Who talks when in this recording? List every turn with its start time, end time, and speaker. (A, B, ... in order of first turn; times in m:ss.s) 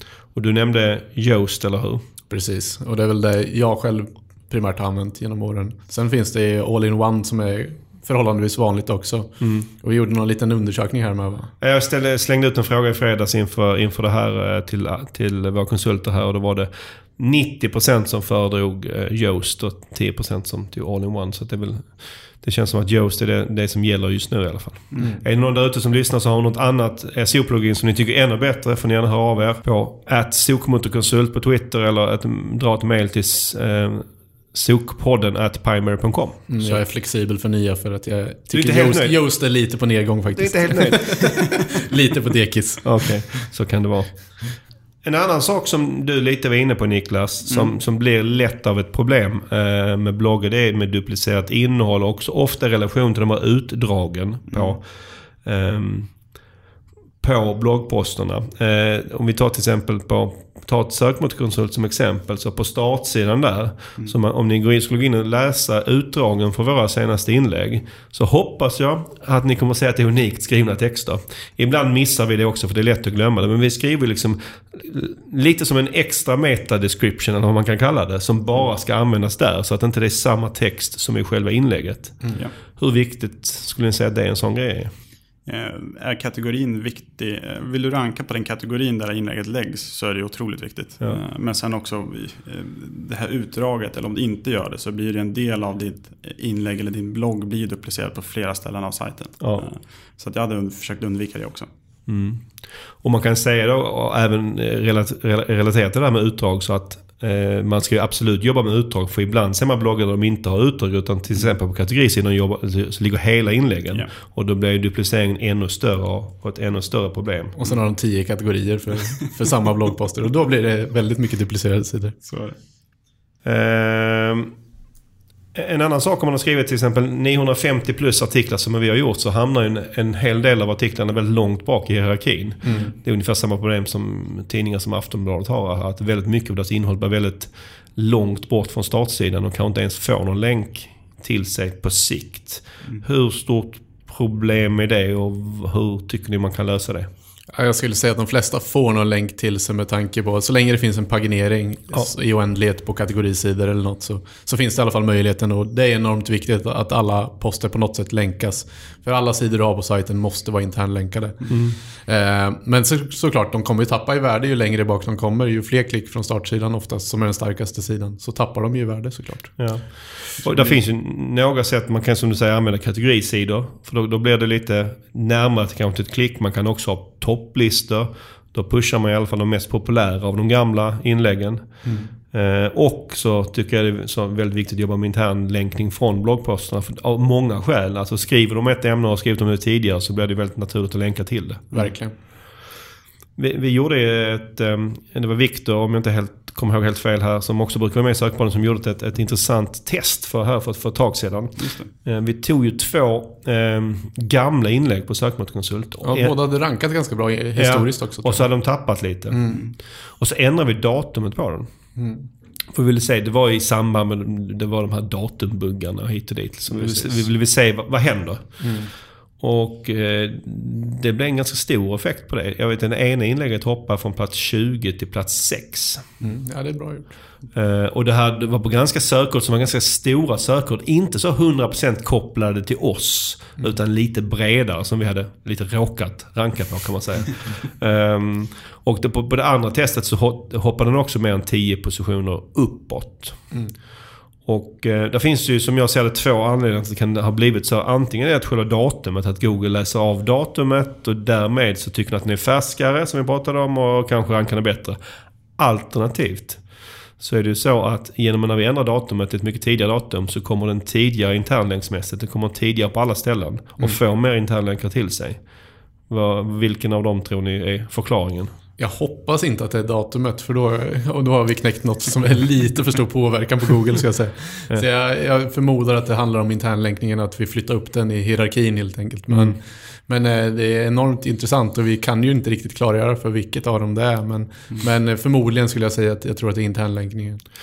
0:00.3-0:02.0 A
0:02.3-0:11.5 B
0:09.4-0:09.7 A
0:11.6-0:36.8 A
0:36.5-0:43.3 B
0:38.5-0:39.2 A
0:40.3-0:41.3 A
0:42.8-0:56.1 A
0:47.5-0:47.7 C
0:54.5-0:54.8 C
0:57.2-1:24.9 A
1:25.4-1:41.7 C
1:42.1-1:57.5 A
1:57.5-2:02.2 B
2:02.2-2:02.6 C
2:03.4-2:04.5 A
2:05.5-2:27.1 A
2:12.6-2:12.9 B
2:27.5-2:50.8 B
2:41.5-2:41.8 A
2:49.6-3:11.7 A
3:01.8-3:02.1 B
3:11.7-3:12.1 B
3:13.4-3:26.3 A
3:21.6-3:21.9 C
3:26.0-3:28.5 B
3:27.6-3:31.7 A
3:29.3-3:29.7 B
3:32.0-3:32.3 B
3:32.7-3:38.8 A
3:36.7-3:37.2 B
3:38.6-3:38.9 B
3:39.4-3:46.1 A
3:46.2-3:47.2 B
3:47.5-4:03.5 A
4:04.4-4:15.0 A
4:15.6-4:16.6 A
4:17.2-4:25.4 A
4:26.1-4:28.5 A
4:28.8-4:47.4 B
4:39.3-4:39.6 A